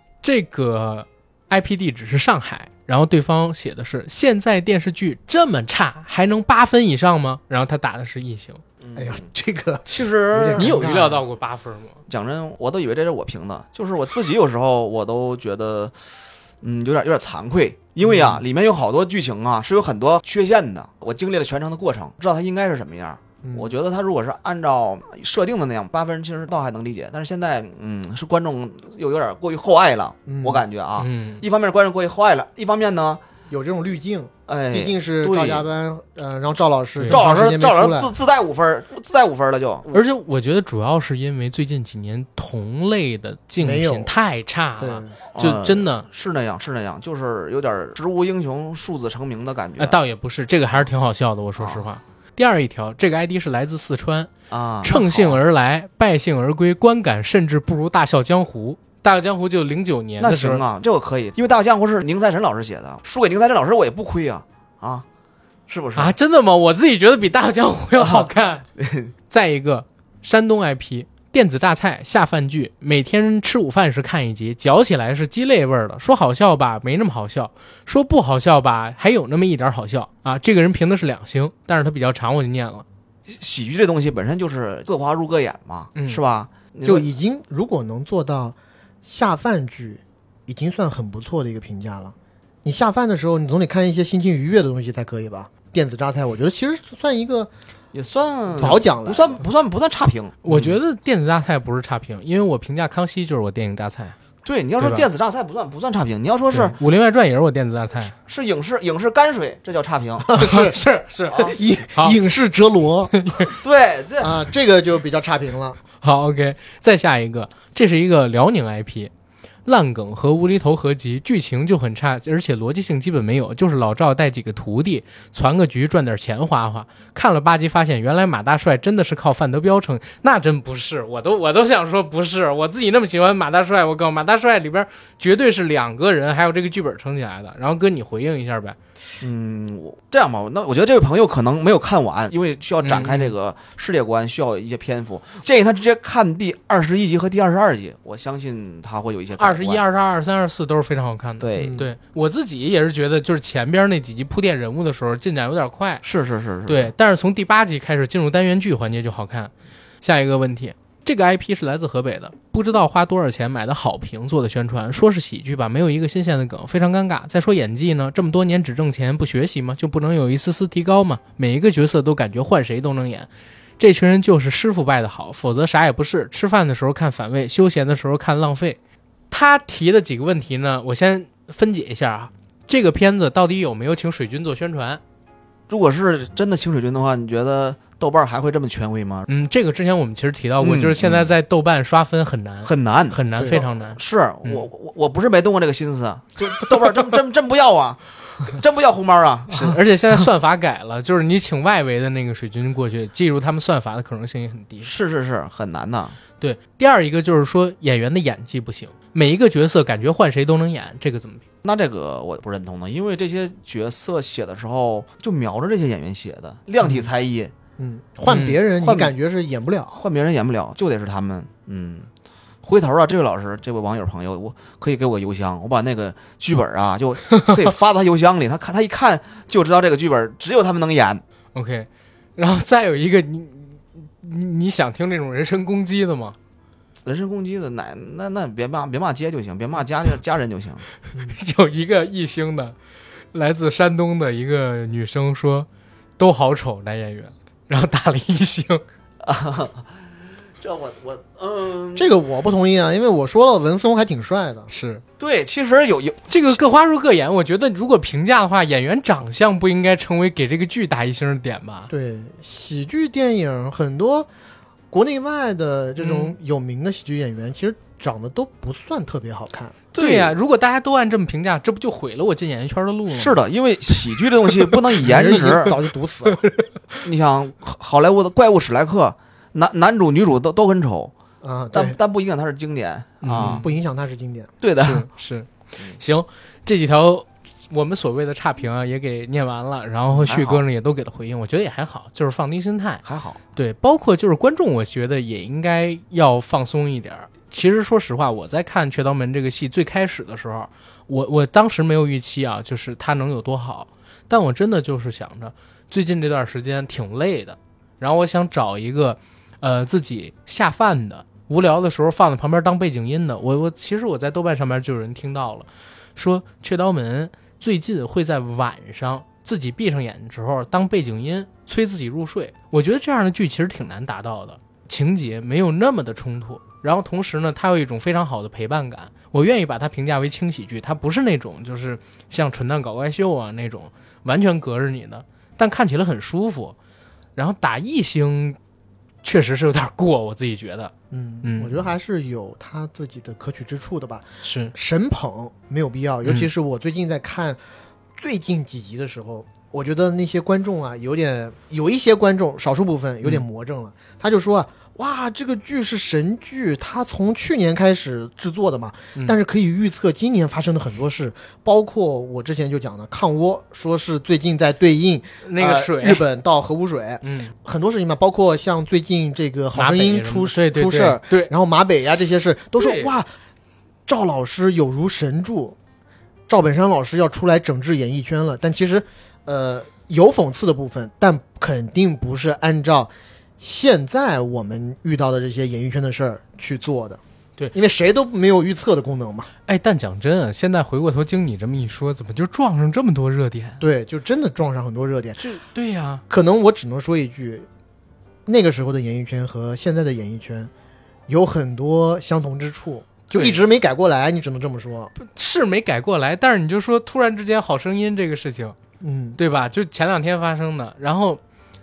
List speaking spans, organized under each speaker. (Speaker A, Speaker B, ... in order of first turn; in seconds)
Speaker A: 0.2-8.6, 10.6-12.0, 31.0-31.4, 37.0-37.2, 39.9-46.0, 49.8-54.3, 54.8-60.6, 66.0-68.7, 69.3-82.8, 86.0-86.2, 100.4-104.2, 104.8-105.1, 106.5-108.1, 110.3-111.4, 113.1-113.5, 116.0-119.1, 119.7-138.8, 142.8-143.3, 149.4-156.0, 156.7-178.8, 179.3-185.0, 189.3-194.7, 199.5-204.9, 206.4-211.4, 218.3-218.6, 231.5-236.3, 241.2-242.7, 243.3-245.7, 246.2-248.8, 254.7-255.0, 256.3-261.9, 266.0-266.3, 270.0-273.4, 274.5-277.1, 283.2-283.7, 284.8-293.0, 293.5-336.7, 337.4-338.6, 339.2-341.8, 344.4-344.7, 365.4-366.2, 367.2-367.5, 369.7-371.5, 372.7-373.1, 389.7-393.8, 395.4-396.2, 403.3-403.6, 405.2-408.8, 409.4-411.4
Speaker B: 8.8-9.2, 9.8-11.1, 12.1-33.2, 34.5-35.6, 37.1-40.0, 45.3-50.0, 51.6-51.8, 54.5-55.4, 60.2-65.0, 65.7-66.1, 68.0-68.2, 68.8-69.1, 83.3-87.1, 97.9-100.7, 104.4-106.8, 108.3-110.3, 113.6-114.4, 139.2-149.8, 151.4-151.9, 156.0-156.9, 185.7-189.3, 190.6-191.3, 192.6-199.8, 204.8-206.2, 211.6-217.5, 218.8-219.1, 219.9-222.1, 222.6-231.2, 237.0-240.9, 249.2-249.9, 250.6-252.1, 255.2-256.6, 269.9-270.3, 273.1-275.8, 277.0-281.1, 281.7-283.7, 284.6-285.1, 290.1-290.6, 293.0-293.4
Speaker C: 8.9-11.2, 18.0-18.4, 23.4-23.7, 30.3-30.6, 33.5-38.1, 43.6-44.1, 44.8-45.1, 86.8-97.5, 98.5-99.4, 110.3-110.8, 111.3-113.1, 114.2-115.8, 151.6-151.9, 217.8-220.0, 251.9-254.7, 261.9-264.3, 264.9-269.8, 275.0-276.4, 281.4-282.0, 283.4-284.5, 341.1-347.6, 348.1-373.3, 374.1-375.8, 376.5-387.2, 387.7-389.5, 393.8-395.5, 396.3-397.7, 398.4-400.7, 401.3-405.1, 409.0-409.4